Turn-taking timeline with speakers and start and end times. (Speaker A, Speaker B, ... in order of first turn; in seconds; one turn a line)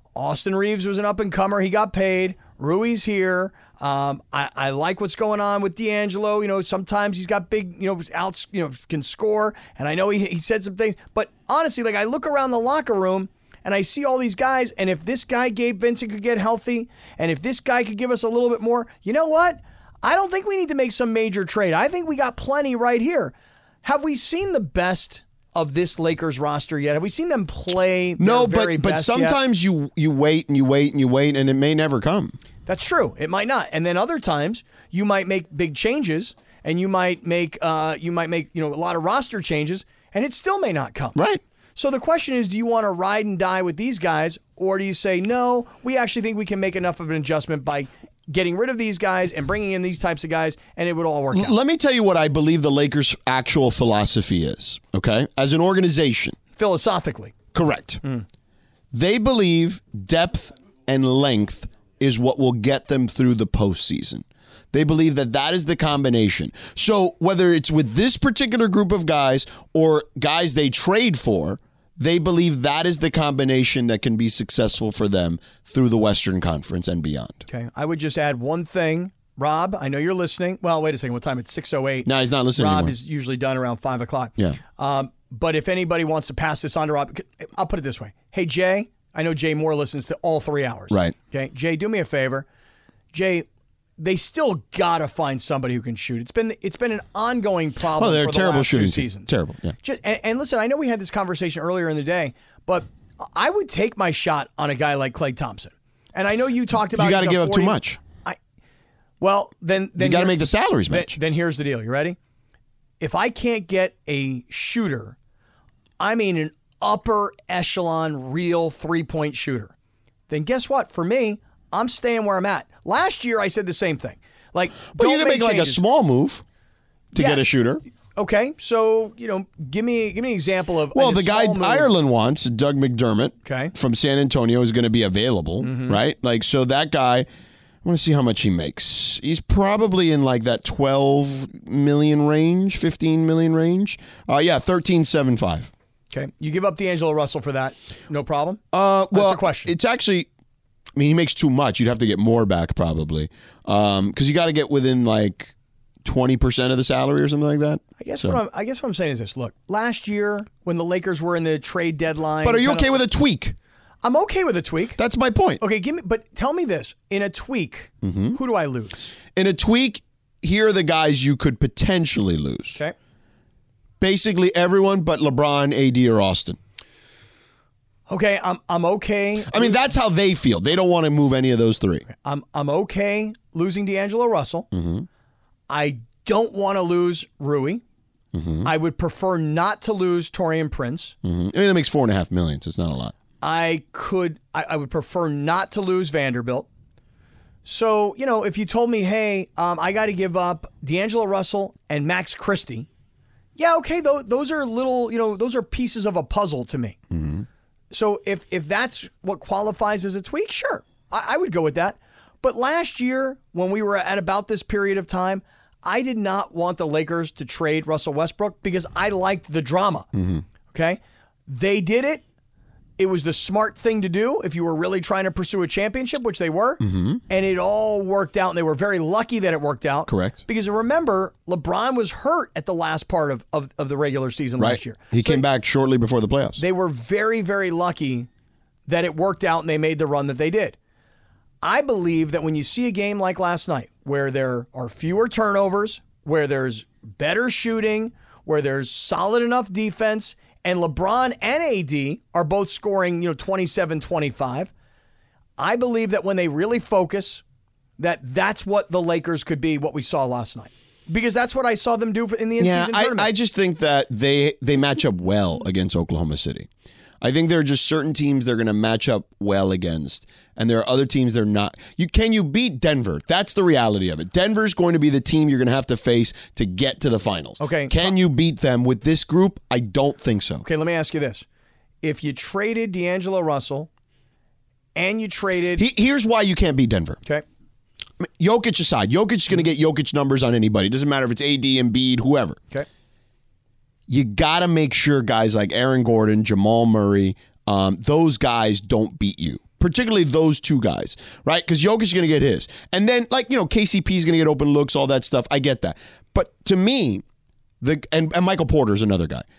Speaker A: 0.1-29.4
Speaker B: 28.2-32.4
Speaker A: 32.6-41.2
Speaker B: 41.1-41.4
Speaker A: 41.8-51.5
Speaker B: 51.3-56.4
Speaker A: 56.5-57.3
Speaker B: 57.5-58.0
Speaker B: 58.9-77.4
Speaker A: 77.5-92.5
Speaker B: 82.0-82.9
Speaker A: 93.1-93.5
Speaker A: 94.0-99.3
Speaker B: 97.9-99.8
Speaker A: 99.8-108.4
Speaker B: 106.9-108.0
Speaker A: 109.2-112.2
Speaker B: 110.0-111.2
Speaker A: 113.0-115.2
Speaker A: 116.0-119.7
Speaker A: 120.3-125.8
Speaker B: 125.0-126.4
Speaker B: 127.1-127.8
Speaker A: 127.1-127.4
Speaker A: 128.2-131.9
Speaker B: 130.9-137.3
Speaker A: 133.4-133.7
Speaker A: 135.6-136.0
Speaker B: 137.8-145.7
Speaker A: 146.1-149.7
Speaker B: 148.7-150.3
Speaker B: 150.9-155.5
Speaker B: 156.0-158.4
Speaker A: 158.0-163.0
Speaker B: 162.4-163.6
Speaker A: 164.0-165.0
Speaker B: 165.0-165.6
Speaker A: 165.6-169.1
Speaker B: 168.0-168.4
Speaker B: 169.3-172.8
Speaker B: 174.0-176.6
Speaker A: 178.1-179.8
Speaker B: 179.5-182.0
Speaker A: 182.2-184.7
Speaker B: 184.7-185.1
Speaker A: 185.7-187.8
Speaker B: 188.3-188.7
Speaker A: 188.6-191.1
Speaker B: 191.2-193.1
Speaker A: 193.4-196.7
Speaker A: 197.6-202.9
Speaker A: 203.6-207.0
Speaker B: 207.1-207.5
Speaker A: 207.9-220.1
Speaker B: 220.1-220.4
Speaker A: 220.7-222.2
Speaker A: 223.0-235.4
Speaker B: 226.8-227.2
Speaker B: 230.1-230.4
Speaker B: 234.6-236.6
Speaker A: 236.6-238.3
Speaker A: 238.9-240.8
Speaker A: 241.6-254.7
Speaker A: 255.6-257.4
Speaker A: 258.0-263.3
Speaker B: 262.6-266.7
Speaker B: 267.2-280.6
Speaker A: 277.6-278.1
Speaker A: 280.6-281.4
Speaker A: 282.0-283.9
Speaker A: 284.9-285.8
Speaker B: 285.8-287.2
Speaker B: 288.2-292.6
Speaker B: 294.1-307.2
Speaker B: 307.8-309.4